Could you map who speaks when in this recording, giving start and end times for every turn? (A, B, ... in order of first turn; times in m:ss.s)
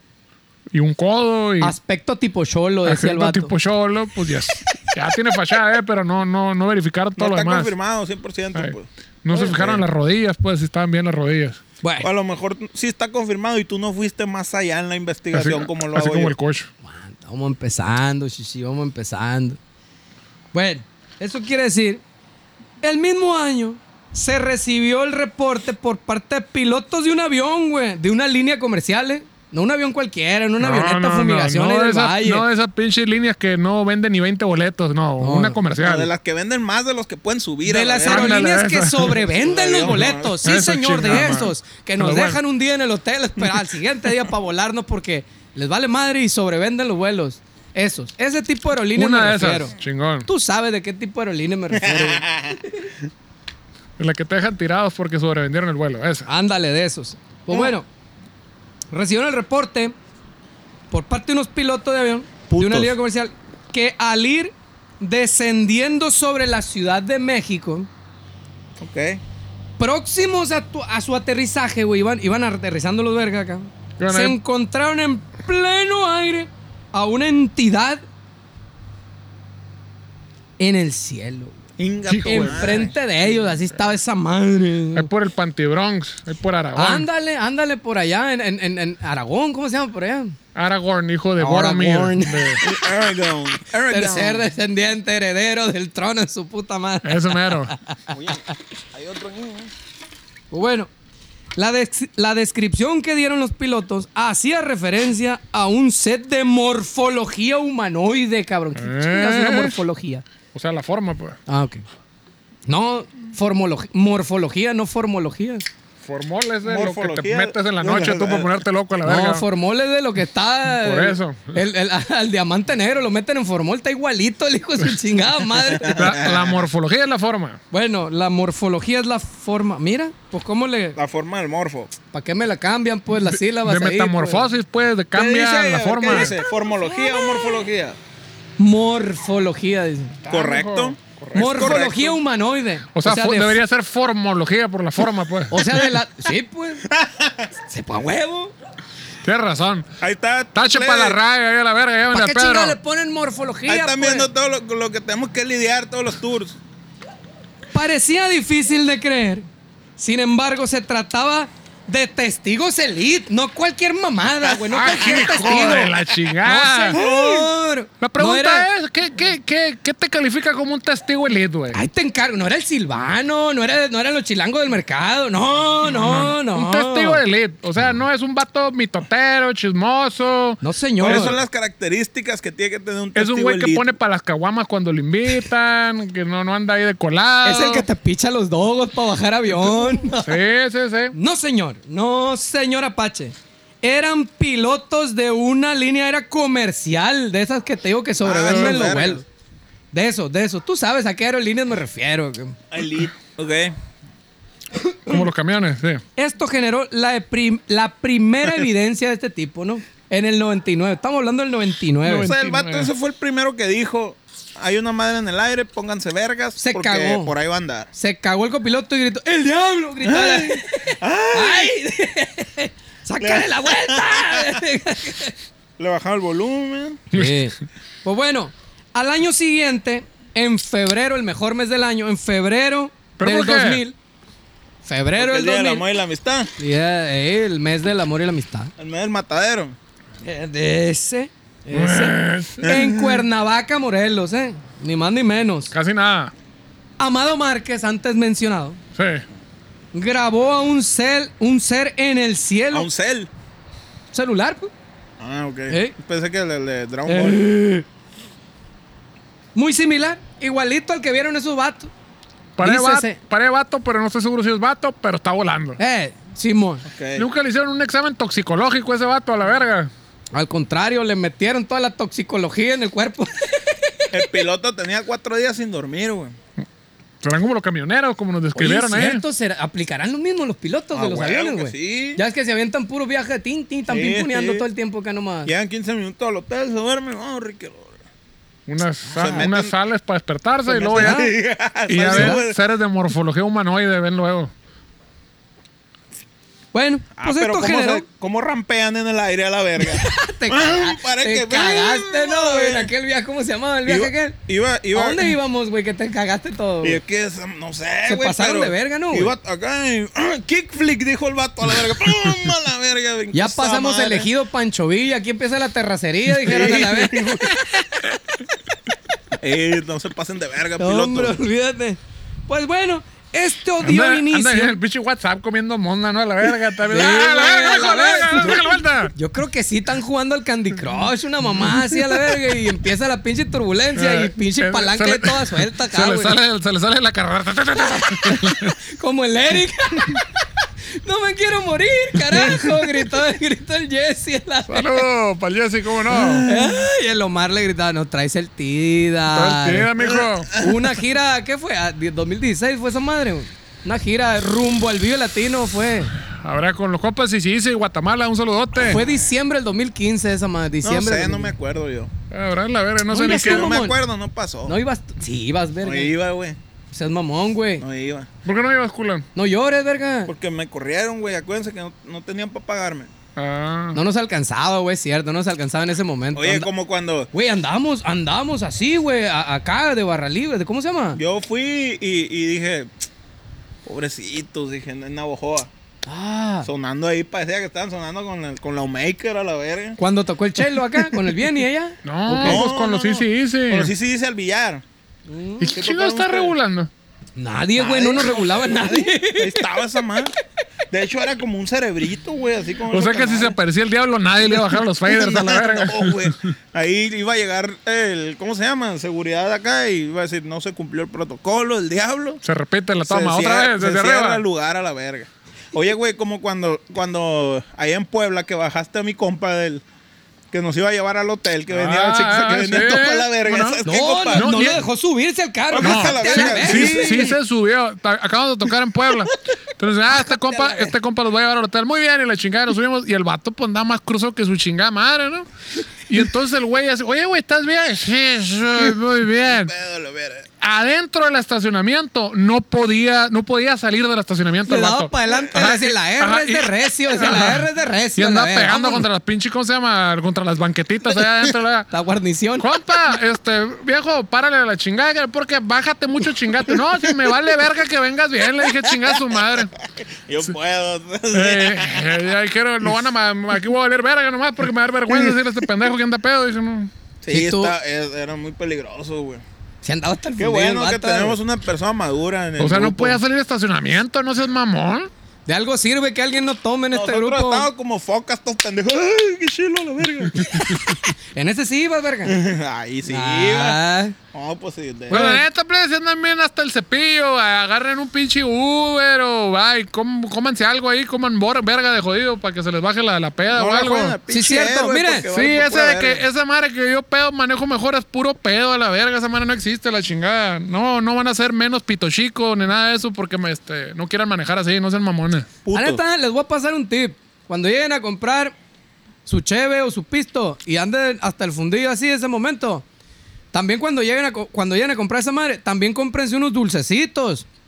0:00.7-0:01.7 A
0:01.6-0:03.5 B
0:02.8-0:07.7 A
0:07.2-0:09.8 C
0:08.5-0:11.6 A
0:11.8-0:12.1 B
0:12.0-0:16.3 C
0:15.3-0:16.7 A
0:16.8-0:19.6 B
0:20.5-0:22.0 B
0:22.8-0:32.4 B
0:30.6-0:36.1 A
0:35.2-0:35.6 B
0:35.8-0:38.4 C
0:37.6-0:49.7 B
0:38.0-0:39.2 A
0:39.3-0:40.4 C
0:40.4-0:42.4 A
0:48.9-0:50.3 A
0:50.2-0:52.9 B
0:51.7-0:52.6 C
0:54.0-0:56.3 A
0:56.2-0:57.8 B
0:58.9-0:59.9 B
1:00.9-1:07.9 B
1:02.5-1:02.9 C
1:08.8-1:09.2 C
1:09.8-1:18.0 B
1:14.0-1:14.4 A
1:20.6-1:21.6 B
1:21.8-1:22.9 C
1:22.1-1:22.8 A
1:22.2-1:25.1 B
1:24.9-1:27.0 A
1:26.7-1:30.3 B
1:30.5-1:32.6 A
1:31.4-1:32.6 B
1:32.6-1:34.5 C
1:33.9-1:38.0 B
1:37.0-1:37.7 A
1:38.1-1:39.7 C
1:40.5-1:40.9 B
1:41.6-1:50.2 B
1:48.8-1:49.7 A
1:50.5-1:51.4 A
1:51.5-1:51.8 B
1:52.7-1:55.6 B
1:56.0-1:59.4 A
1:56.6-1:58.6 C
1:59.0-2:06.0 B
2:00.8-2:01.6 A
2:05.7-2:06.6 C
2:05.8-2:07.6 A
2:07.7-2:11.0 B
2:11.0-2:11.9 C
2:12.1-2:14.5 B
2:13.2-2:16.3 A
2:15.1-2:18.0 C
2:16.1-2:17.6 B
2:18.6-2:20.2 B
2:20.2-2:21.7 A
2:20.3-2:22.2 C
2:21.3-2:23.6 B
2:22.9-2:25.6 A
2:25.5-2:26.9 B
2:26.9-2:27.5 C
2:27.7-2:28.5 B
2:29.2-2:29.9 A
2:30.0-2:31.2 C
2:30.5-2:32.8 A
2:32.1-2:34.3 B
2:33.7-2:36.6 C
2:37.7-2:39.4 B
2:40.0-2:48.7 B
2:44.7-2:47.0 A
2:46.9-2:47.5 C
2:48.0-2:51.8 A
2:51.7-2:57.2 B
2:55.8-3:01.3 A
3:00.6-3:01.4 B
3:01.0-3:03.9 C
3:03.1-3:07.8 A
3:07.4-3:10.4 B
3:10.2-3:11.1 A
3:11.1-3:19.2 B
3:18.2-3:19.2 C
3:18.5-3:19.0 A
3:19.9-3:22.6 B
3:22.7-3:23.7 C
3:24.8-3:25.3 B
3:25.1-3:26.0 A
3:26.2-3:32.3 B
3:32.0-3:32.9 A
3:32.2-3:37.9 C
3:36.6-3:37.3 B
3:37.9-3:45.4 B
3:40.0-3:41.7 C
3:43.2-3:44.6 C
3:45.8-3:47.0 C
3:47.1-3:47.5 A
3:47.1-3:54.0 B
3:53.2-3:53.8 A
3:54.8-3:55.8 B
3:55.2-3:56.5 C
3:56.6-3:58.7 B
3:58.8-3:59.8 C
4:00.2-4:05.7 B
4:01.7-4:02.6 A
4:02.6-4:03.2 C
4:05.7-4:06.3 A
4:07.0-4:08.8 B
4:09.0-4:09.2 A
4:09.9-4:12.9 B
4:12.7-4:13.3 C
4:14.1-4:14.7 B
4:15.2-4:17.4 C
4:15.7-4:15.9 B
4:17.0-4:17.8 B
4:19.5-4:21.9 B
4:22.6-4:25.8 A
4:22.6-4:23.2 B
4:25.8-4:26.8 B
4:26.8-4:27.2 C
4:27.2-4:29.9 A
4:30.3-4:34.2 B
4:34.1-4:36.4 C
4:37.2-4:39.2 A
4:38.5-4:45.5 B
4:40.9-4:42.2 C
4:43.9-4:44.6 C
4:45.4-4:48.0 C
4:48.7-4:51.2 A
4:49.1-4:49.5 B
4:49.1-4:49.7 C
4:50.7-4:52.6 C
4:50.9-4:51.3 B
4:51.9-4:54.5 A
4:52.1-4:52.4 B
4:56.7-4:58.0 B
4:57.2-5:02.9 C
4:59.8-5:04.4 B
5:03.8-5:05.4 C
5:04.9-5:07.0 B
5:06.8-5:14.3 C
5:08.0-5:09.3 B
5:13.3-5:18.1 B
5:16.4-5:17.5 C
5:19.4-5:21.4 C
5:20.8-5:24.8 B
5:23.8-5:29.1 A
5:26.9-5:36.4 B
5:31.6-5:32.0 A
5:34.0-5:38.8 A
5:38.2-5:40.2 B
5:41.0-5:45.0 B
5:42.4-5:42.7 A
5:44.7-5:46.5 A
5:46.1-5:46.9 C
5:46.4-5:49.9 B
5:49.3-5:50.5 A
5:50.0-5:50.7 C
5:50.5-5:56.1 B
5:56.3-5:59.0 A
5:58.8-6:01.5 B
6:00.8-6:02.1 C
6:02.3-6:03.7 A
6:03.1-6:04.0 B
6:03.2-6:04.8 C
6:04.6-6:06.1 B
6:05.8-6:06.6 C
6:06.9-6:07.8 B
6:07.8-6:08.3 C
6:08.4-6:09.2 A
6:09.3-6:10.3 B
6:10.2-6:13.1 C
6:13.4-6:14.0 A
6:13.9-6:16.7 B
6:16.3-6:17.3 C
6:17.3-6:21.2 B
6:21.2-6:22.9 C
6:23.8-6:25.7 C
6:26.0-6:26.7 B
6:26.6-6:30.0 C
6:30.0-6:32.7 B
6:32.0-6:33.9 A
6:32.4-6:34.8 C
6:35.3-6:35.7 B
6:35.6-6:36.9 A
6:35.7-6:36.5 C
6:37.4-6:39.8 B
6:37.8-6:40.3 C
6:40.9-6:43.6 C
6:42.9-6:46.5 A
6:44.5-6:52.4 C
6:52.4-6:54.4 A
6:53.0-6:59.8 C
7:00.5-7:04.5 C
7:01.7-7:04.8 A
7:03.8-7:07.3 B
7:05.7-7:07.4 C
7:05.8-7:15.4 A
7:10.4-7:10.8 C
7:16.1-7:19.7 A
7:19.5-7:20.5 C
7:20.6-7:31.9 A
7:24.6-7:29.1 B
7:31.9-7:32.6 B
7:32.6-7:39.7 A
7:38.8-7:39.1 C
7:40.0-7:42.0 C
7:41.3-7:46.9 A
7:45.1-7:45.3 C
7:47.2-7:49.4 C
7:47.3-7:47.7 B
7:49.8-7:51.4 B
7:50.4-7:53.2 C
7:52.6-7:55.1 A
7:55.5-7:57.7 B
7:56.9-8:01.0 C
8:01.3-8:02.4 B
8:02.2-8:03.8 C
8:03.0-8:04.1 B
8:04.3-8:05.4 C
8:05.1-8:14.2 A
8:05.1-8:05.4 B
8:13.5-8:16.2 C
8:14.3-8:15.3 B
8:15.3-8:25.5 A
8:25.6-8:26.0 C
8:25.7-8:28.5 B
8:29.2-8:32.8 B
8:33.5-8:37.4 B